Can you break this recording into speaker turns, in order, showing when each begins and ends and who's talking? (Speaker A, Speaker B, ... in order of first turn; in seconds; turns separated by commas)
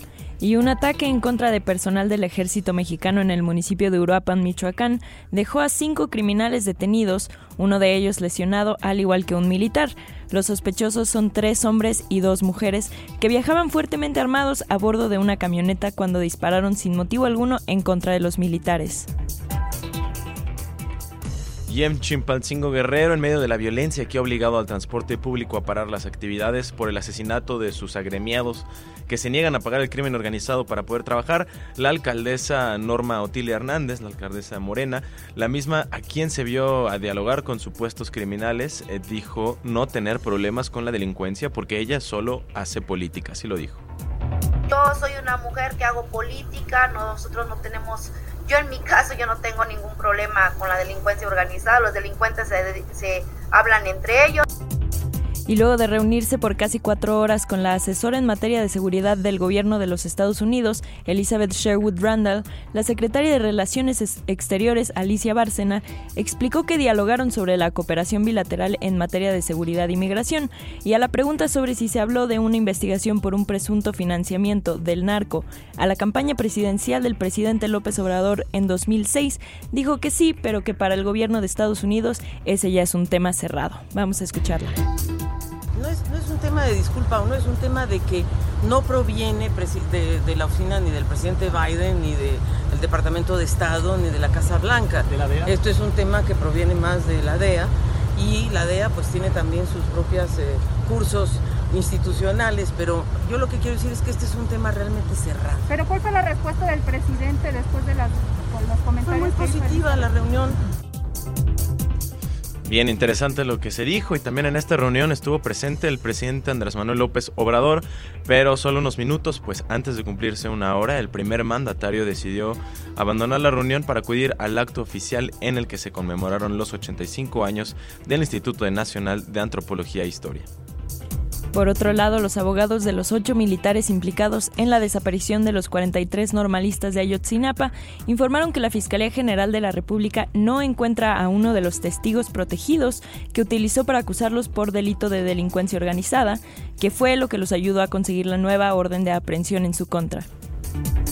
Speaker A: 0.4-19.1, Speaker B: 21.7-43.8, Speaker C: 44.7-54.5, Speaker A: 55.5-84.7, Speaker D: 85.7-105.6, Speaker E: 105.7-110.1, Speaker D: 109.0-110.6, Speaker B: 112.7-130.5, Speaker A: 131.5-150.3